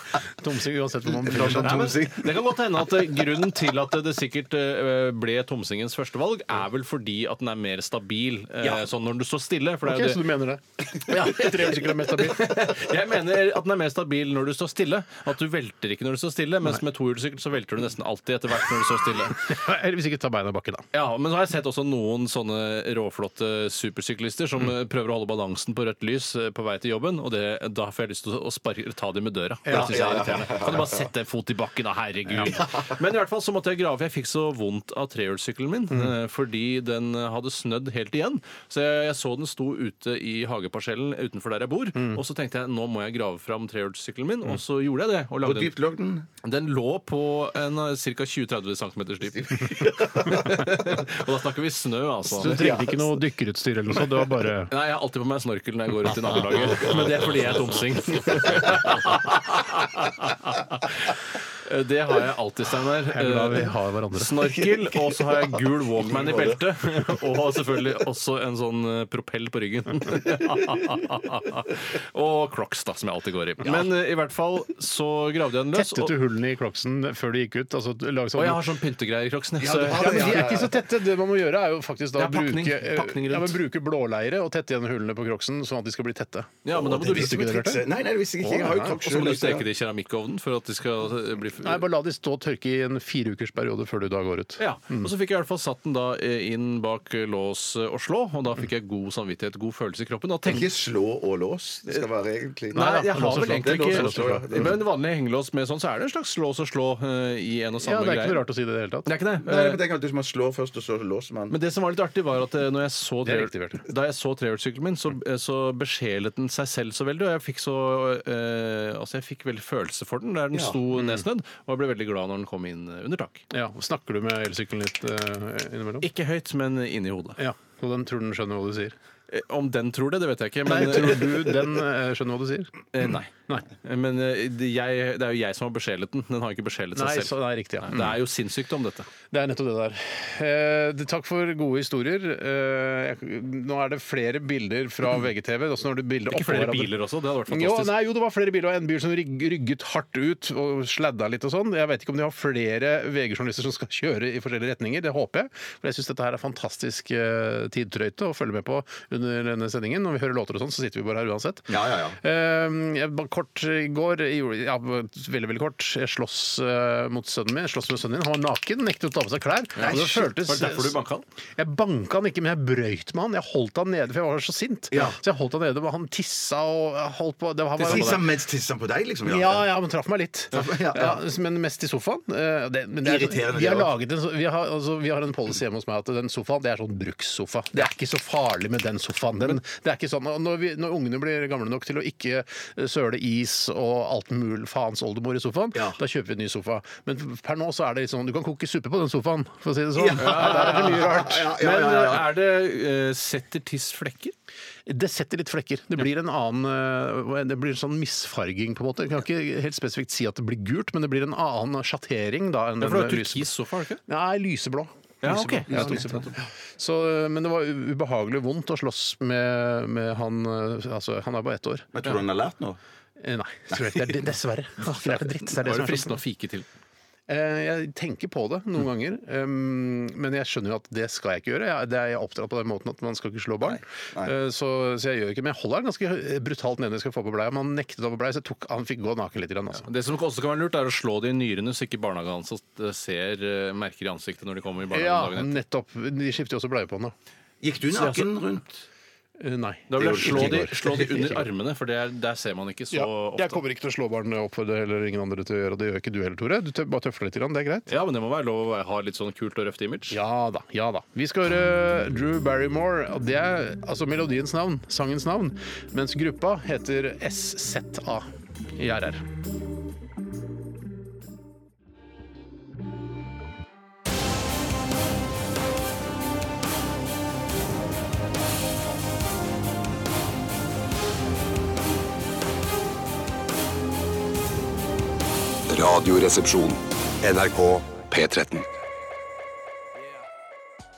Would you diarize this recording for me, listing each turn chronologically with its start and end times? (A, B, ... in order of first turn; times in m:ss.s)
0:00.4-0:02.0 A
0:01.1-0:02.5 B
0:01.4-0:10.2 C
0:09.8-0:12.7 A
0:11.1-0:19.4 C
0:19.4-0:20.8 A
0:20.9-0:45.7 C
0:29.7-0:30.5 A
0:29.7-0:31.1 B
0:32.4-0:32.9 B
0:45.4-0:46.3 B
0:46.4-0:52.8 C
0:49.5-0:50.6 B
0:52.4-0:54.7 A
0:52.4-0:53.1 B
0:54.7-1:16.1 C
0:56.6-0:57.3 B
1:03.1-1:04.3 A
1:04.6-1:06.6 B
1:15.7-1:18.6 A
1:18.4-1:20.6 C
1:19.6-1:20.8 B
1:19.8-1:27.8 A
1:22.2-1:23.6 C
1:26.6-1:27.5 C
1:26.7-1:29.7 B
1:28.4-1:28.9 A
1:28.8-1:31.8 C
1:31.6-1:35.1 A
1:34.6-1:40.7 C
1:40.5-1:44.8 B
1:42.7-1:48.4 C
1:42.8-1:44.7 A
1:47.8-1:49.1 A
1:49.1-1:49.8 C
1:49.4-1:51.6 B
1:51.5-2:03.4 C
1:53.2-1:53.8 A
2:01.0-2:01.2 A
2:03.5-2:06.1 A
2:06.0-2:07.4 C
2:07.4-2:08.9 A
2:09.3-2:11.6 C
2:10.7-2:12.8 A
2:12.9-2:19.1 C
2:17.0-2:18.2 A
2:19.3-2:26.9 A
2:26.3-2:27.9 C
2:27.5-2:50.9 A
2:41.7-2:42.2 B
2:49.8-2:50.3 B
2:49.8-2:51.2 C
2:51.6-2:58.2 A
2:54.9-2:55.2 B
2:57.8-2:59.7 B
2:59.3-3:21.5 A
3:00.5-3:01.2 B
3:03.0-3:03.9 B
3:15.7-3:16.0 B
3:20.0-3:22.3 B
3:20.2-3:24.3 C
3:24.9-3:33.5 A
3:32.8-3:34.0 C
3:34.1-3:41.9 A
3:35.2-3:36.3 C
3:35.7-3:36.2 B
3:41.9-3:42.8 B
3:43.2-3:46.2 A
3:45.5-3:46.7 C
3:47.3-3:59.9 A
3:53.6-3:54.3 B
3:59.8-4:05.6 C
4:04.9-4:07.1 A
4:07.6-4:08.8 B
4:07.9-4:08.3 C
4:09.4-4:11.5 A
4:09.9-4:13.6 C
4:10.0-4:10.7 B
4:12.9-4:17.9 A
4:17.9-4:20.2 C
4:20.1-4:29.2 A
4:45.7-4:48.7 D